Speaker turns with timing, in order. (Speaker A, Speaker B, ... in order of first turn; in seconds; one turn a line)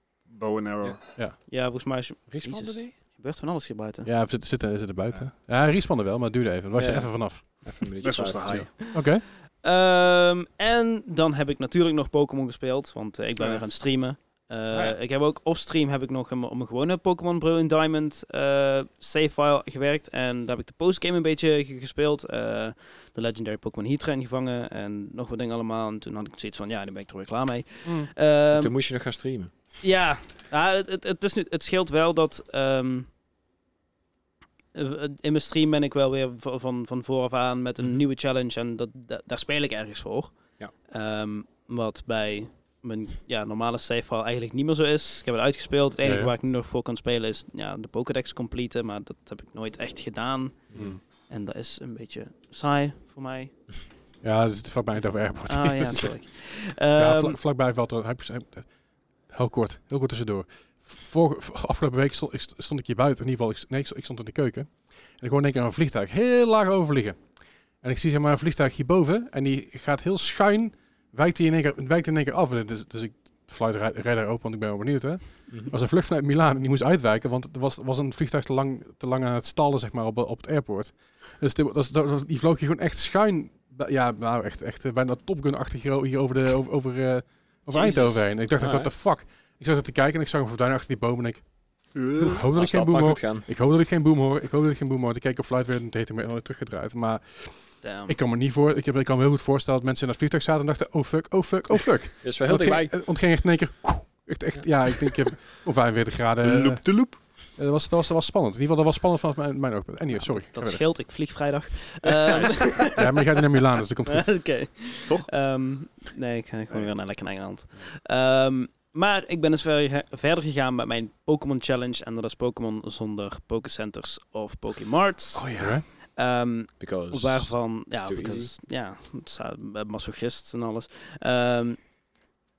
Speaker A: 0.3-1.0
Speaker B: 1.5-4.1
Speaker C: 2.3-2.9
Speaker D: 4.0-7.7
Speaker C: 6.8-8.7
Speaker A: 8.0-8.7
Speaker B: 8.8-28.7
Speaker D: 8.9-9.2
Speaker A: 13.4-13.6
Speaker D: 27.8-28.1
Speaker C: 28.5-29.5
Speaker B: 29.8-33.1
Speaker B: 34.7-53.5
Speaker D: 46.0-46.3
Speaker C: 50.7-51.0
Speaker D: 50.7-51.0
Speaker D: 54.2-56.2
Speaker B: 55.5-57.4
Speaker D: 56.9-58.7
Speaker D: 59.3-67.2
Speaker D: 67.8-91.4
Speaker B: 87.7-88.2
Speaker C: 88.6-88.9
Speaker A: 91.9-92.4
Speaker D: 92.1-106.9
Speaker C: 92.5-93.5
Speaker B: 97.8-98.1
Speaker C: 102.2-103.0
Speaker A: 106.4-107.2
Speaker D: 107.5-110.8
Speaker B: 110.2-113.1
Speaker D: 112.8-114.3
Speaker B: 114.1-131.8
Speaker C: 125.3-125.8
Speaker D: 125.5-125.8
Speaker C: 126.8-127.5
Speaker C: 128.0-128.5